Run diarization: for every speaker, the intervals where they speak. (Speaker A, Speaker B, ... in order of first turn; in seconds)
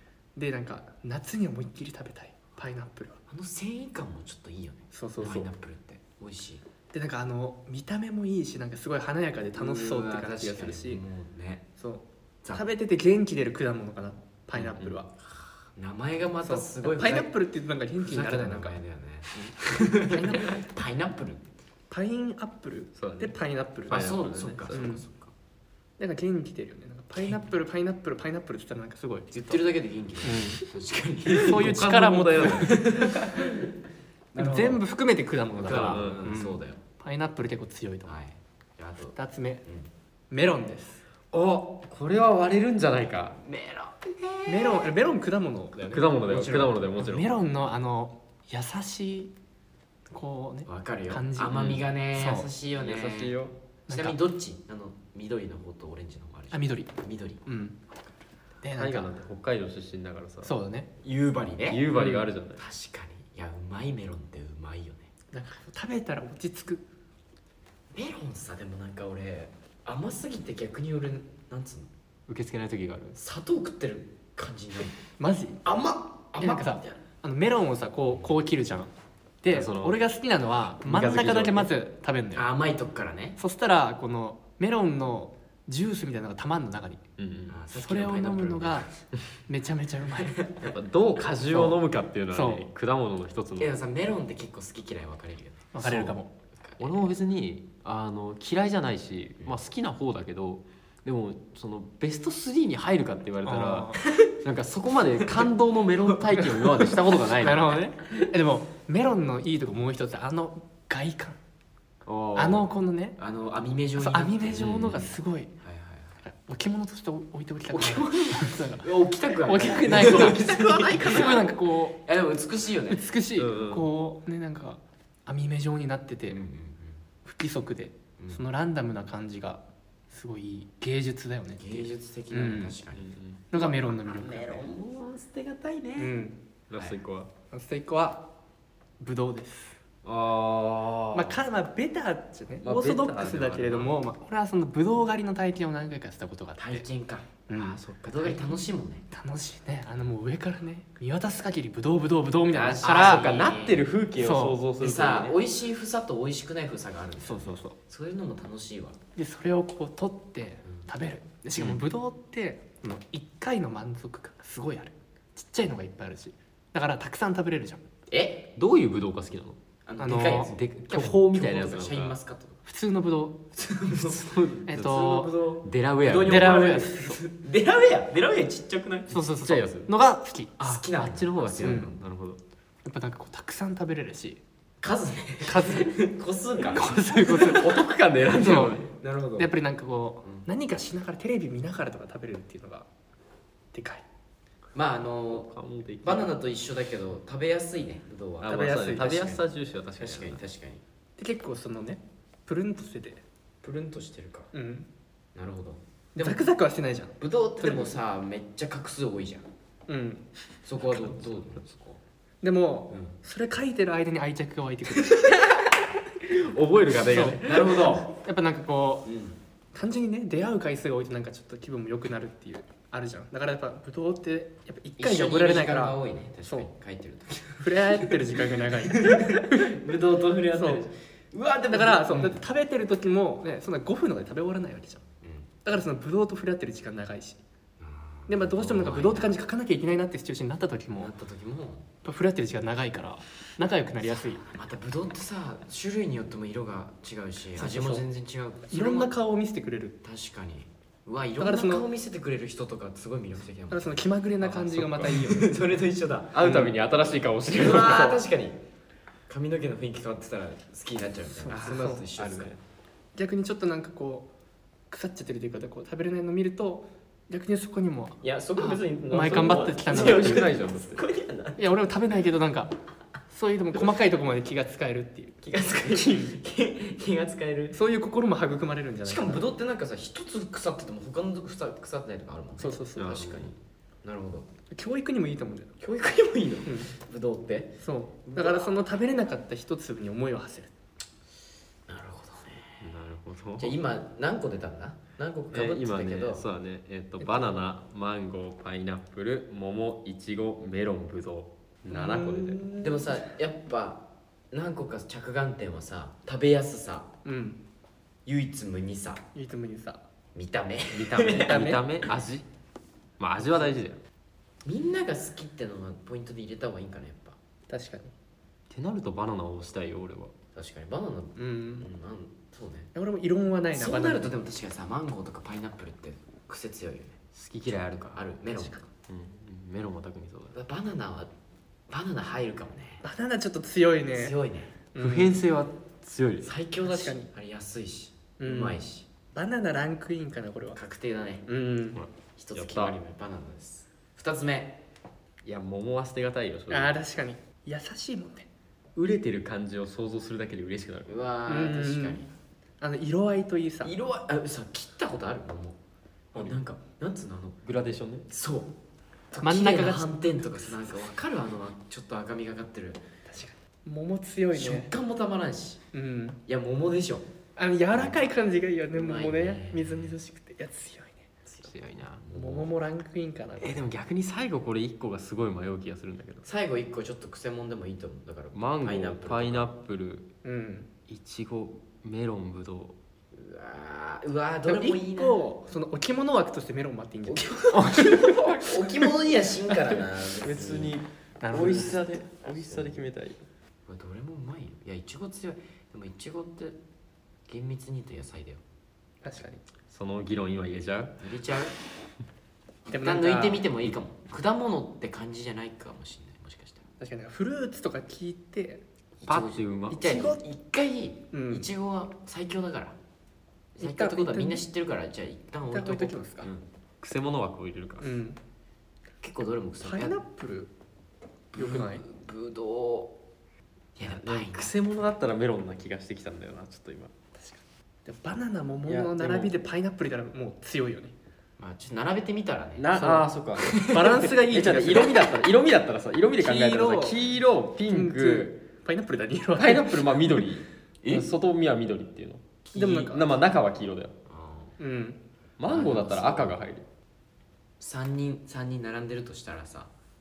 Speaker A: 0.3-3.2, 4.9-5.5, 6.9-11.0, 11.8-15.1, 16.4-18.8, 20.0-20.6, 21.9-24.1, 24.7-25.1, 26.0-29.6, 30.2-30.6, 31.3-33.4, 34.4-38.2, 39.1-39.6, 40.3-41.0, 44.5-45.9, 47.0-49.3, 50.1-52.5, 53.9-54.2, 56.5-56.9, 57.5-57.8, 58.6-59.2, 60.4-60.9, 61.9-62.3, 65.3-66.8, 75.2-75.6, 76.4-78.9, 79.4-82.5, 83.4-87.0, 87.7-88.9, 89.5-90.5, 91.5-92.7, 95.7-96.3, 103.4-104.0, 107.4-111.4, 112.3-113.2, 114.0-115.5, 116.2-122.0, 122.9-126.4, 127.2-132.8, 133.5-134.7, 136.0-136.4, 137.5-138.3, 139.0-139.8, 141.1-146.9, 147.5-153.3, 154.2-154.6, 157.2-157.8, 159.2-167.8, 170.0-171.3, 172.7-173.4, 174.7-175.3, 176.2-177.2, 179.1-180.9, 181.6-181.9, 182.8-184.4, 185.4-186.0, 186.7-187.8, 188.3-188.8, 189.4-192.9, 193.7-194.1, 198.5-199.2, 201.2-203.2, 204.5-204.9, 206.2-208.0, 209.9-210.3, 212.4-215.4, 218.0-219.1, 219.7-226.7, 227.6-230.0, 230.5-230.8, 231.7-235.0, 235.6-237.4, 238.3-241.1, 242.0-244.4, 247.6-248.1, 248.7-250.0, 251.4-251.9, 253.7-255.6, 261.4-262.1, 263.1-264.3, 264.9-270.5, 271.6-272.8, 273.3-275.4, 276.0-276.4, 277.7-279.5, 282.6-283.3, 284.7-285.7, 286.7-286.9, 287.8-290.7, 297.2-297.6, 301.9-303.2, 307.2-307.6, 309.3-310.0, 311.4-311.9, 317.7-318.1, 321.4-321.9, 322.9-324.3, 328.5-328.8, 333.0-334.4, 334.9-335.4, 336.8-337.3, 338.4-338.8, 339.3-340.8, 341.5-342.0, 346.7-348.5, 351.5-352.2, 352.8-353.9, 359.4-360.8, 363.3-364.9, 365.9-366.4, 367.6-371.3, 372.3-373.9, 380.4-380.9, 384.6-388.3, 391.4-392.0, 399.2-399.6, 402.9-403.6, 407.0-408.8, 409.9-410.4, 411.3-411.7, 413.8-414.6, 415.7-416.5, 418.0-418.4, 419.8-420.7, 421.6-422.1, 427.4-431.1, 432.9-435.3, 436.4-437.2, 437.9-440.4, 442.8-443.2, 444.8-445.2
Speaker B: 3.3-6.6, 9.5-11.7, 14.6-14.8, 15.8-17.4, 18.0-21.4, 23.9-25.3, 29.3-31.8, 32.4-33.6, 34.3-34.8, 35.6-36.8, 38.0-39.9, 43.4-44.9, 45.7-46.8, 50.7-57.5, 61.0-61.9, 62.5-65.1, 67.9-71.9, 73.2-75.0, 75.6-77.0, 82.3-83.4, 87.5-88.9, 90.4-90.7, 93.6-95.7, 96.5-97.1, 113.2-116.2, 117.7-123.1, 126.3-127.0, 131.6-136.1, 136.7-137.0, 146.6-149.1, 152.4-153.9, 154.8-159.0, 168.1-168.5, 169.9-172.6, 173.6-174.3, 174.8-179.2, 180.6-182.1, 184.8-187.6, 188.4-189.6, 194.8-195.5, 196.0-199.4, 200.0-200.8, 203.6-204.5, 205.3-206.5, 207.2-209.5, 210.6-212.0, 212.9-213.2, 217.2-218.1, 219.1-219.4, 225.0-232.4, 235.2-235.5, 237.8-239.4, 240.9-241.8, 244.0-249.1, 250.0-254.1, 255.0-256.5, 257.5-258.6, 259.3-262.6, 268.2-271.8, 275.4-277.8, 279.0-284.5, 285.8-287.7, 288.2-288.8, 291.9-292.9, 293.6-296.5, 302.8-307.1, 308.2-309.2, 310.3-311.6, 314.6-317.4, 320.5-322.9, 323.7-328.8, 330.5-331.3, 331.9-333.0, 334.1-334.8, 336.4-339.1, 340.7-341.5, 342.4-344.8, 351.1-352.3, 353.8-355.8, 356.3-357.6, 358.3-358.7, 359.3-363.0, 364.5-365.8, 366.5-367.2, 367.9-368.3, 368.9-370.2, 371.5-372.8, 376.4-379.7, 383.3-385.5, 387.3-391.0, 391.6-393.0, 393.9-396.8, 397.5-398.6, 401.2-401.8, 402.9-406.8, 409.2-413.0, 413.8-416.6, 419.2-420.2, 421.5-423.2, 424.0-424.7, 431.6-432.9, 433.7-434.2, 441.0-441.3, 442.6-443.4, 444.3-444.8, 445.7-446.6, 447.8-449.9
Speaker C: 22.9-23.3, 23.9-24.8, 31.4-32.8, 35.6-36.3, 41.3-43.4, 45.8-47.4, 51.5-51.9, 52.8-53.6, 58.8-60.6, 61.7-62.6, 72.3-73.2, 79.5-80.0, 80.8-81.7, 87.2-87.6, 90.6-93.8, 95.8-96.2, 96.8-107.8, 112.0-112.7, 114.5-115.0, 119.9-121.3, 123.4-123.9, 132.9-133.5, 136.7-137.3, 140.1-141.4, 142.6-143.9, 152.8-155.4, 161.6-161.8, 168.6-169.6, 170.4-172.2, 173.9-175.1, 175.6-176.9, 179.3-179.9, 180.9-182.4, 187.1-188.8, 195.3-196.3, 198.4-200.4, 216.2-218.0, 254.4-255.2, 256.3-258.2, 261.5-262.6, 269.3-271.1, 283.0-283.5, 292.8-293.8, 295.5-302.7, 310.9-312.5, 313.2-314.0, 318.7-320.3, 327.4-328.2, 329.1-330.6, 335.0-336.5, 341.9-343.0, 345.4-347.0, 349.0-351.1, 357.6-358.3, 371.6-372.2, 373.6-376.4, 378.5-380.3, 381.1-383.0, 387.7-388.8, 390.4-393.5, 399.9-401.2, 409.2-410.0, 417.0-418.1, 424.0-427.1, 428.9-429.5, 432.8-438.6, 439.6-442.4, 443.0-444.1, 445.6-446.9